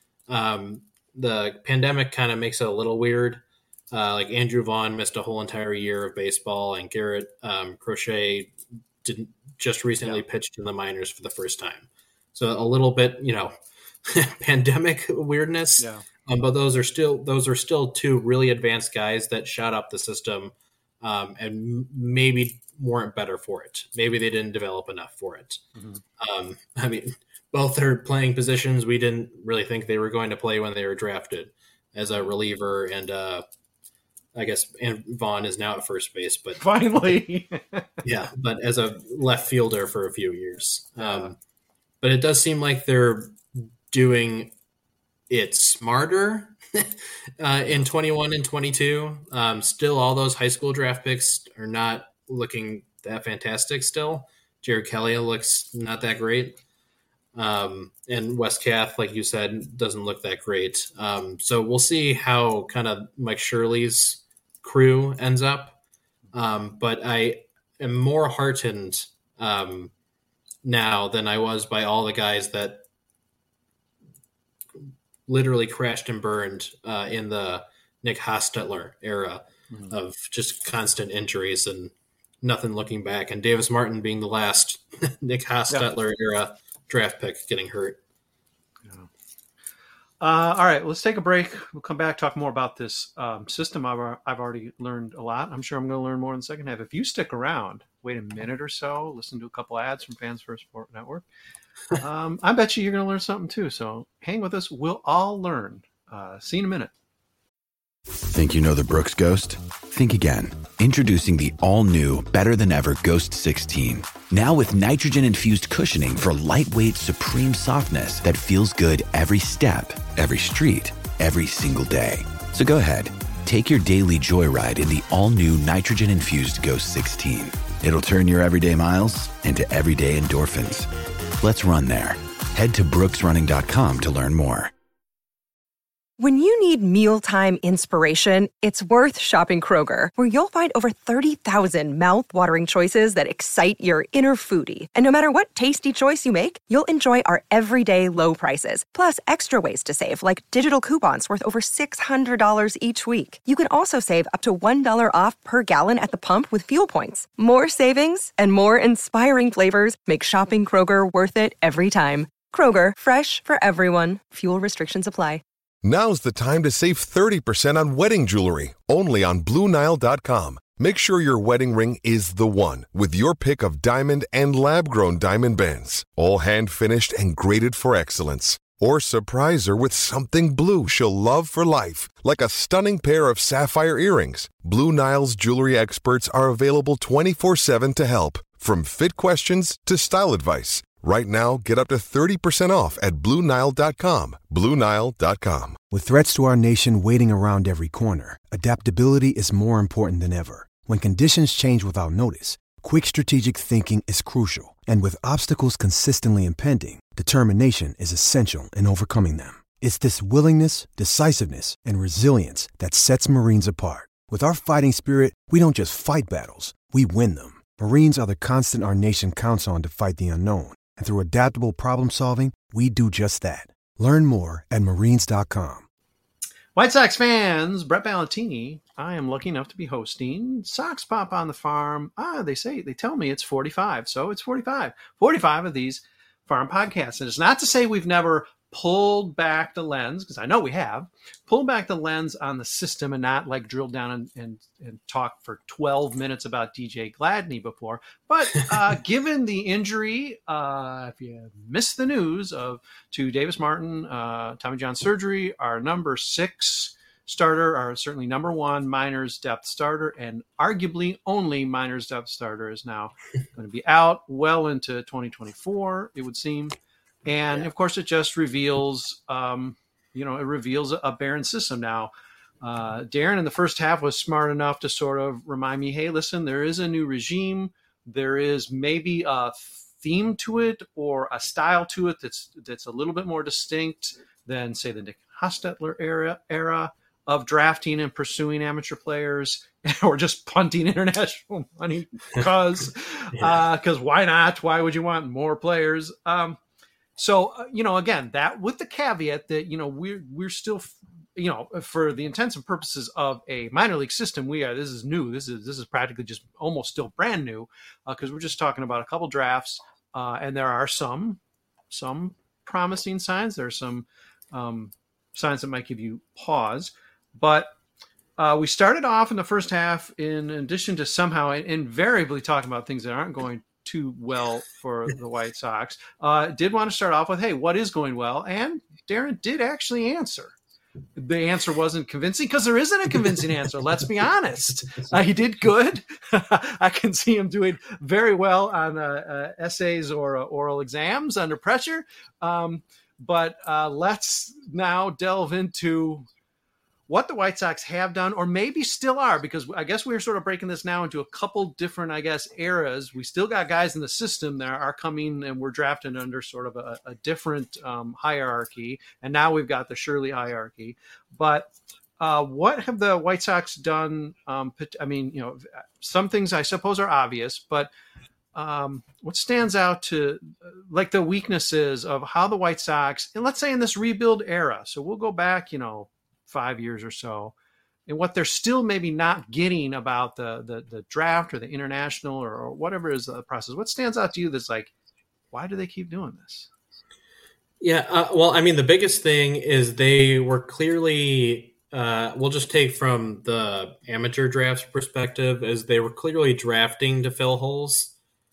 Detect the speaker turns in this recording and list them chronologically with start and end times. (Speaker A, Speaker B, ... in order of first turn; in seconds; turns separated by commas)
Speaker A: 0.3-25.6, Speaker B: 15.8-16.0, Speaker B: 25.8-26.0, Speaker A: 26.2-33.5, Speaker A: 34.3-36.6, Speaker B: 36.6-37.9, Speaker A: 38.0-41.4, Speaker B: 41.0-41.3, Speaker A: 42.0-44.5, Speaker A: 45.3-56.6, Speaker A: 57.4-65.8, Speaker A: 66.3-69.9, Speaker A: 70.6-72.8, Speaker A: 75.3-88.0, Speaker B: 90.2-101.2, Speaker B: 102.0-106.9, Speaker C: 108.2-130.9, Speaker C: 131.4-134.7, Speaker D: 136.2-165.4, Speaker E: 165.8-195.8, Speaker F: 195.9-225.8, Speaker B: 226.8-296.6, Speaker B: 297.2-311.4, Speaker B: 311.9-317.7, Speaker B: 318.4-330.5, Speaker B: 331.2-346.3, Speaker A: 334.8-335.2, Speaker B: 347.1-367.9, Speaker B: 368.5-377.5, Speaker B: 378.1-384.9, Speaker B: 385.5-386.7, Speaker A: 387.8-398.1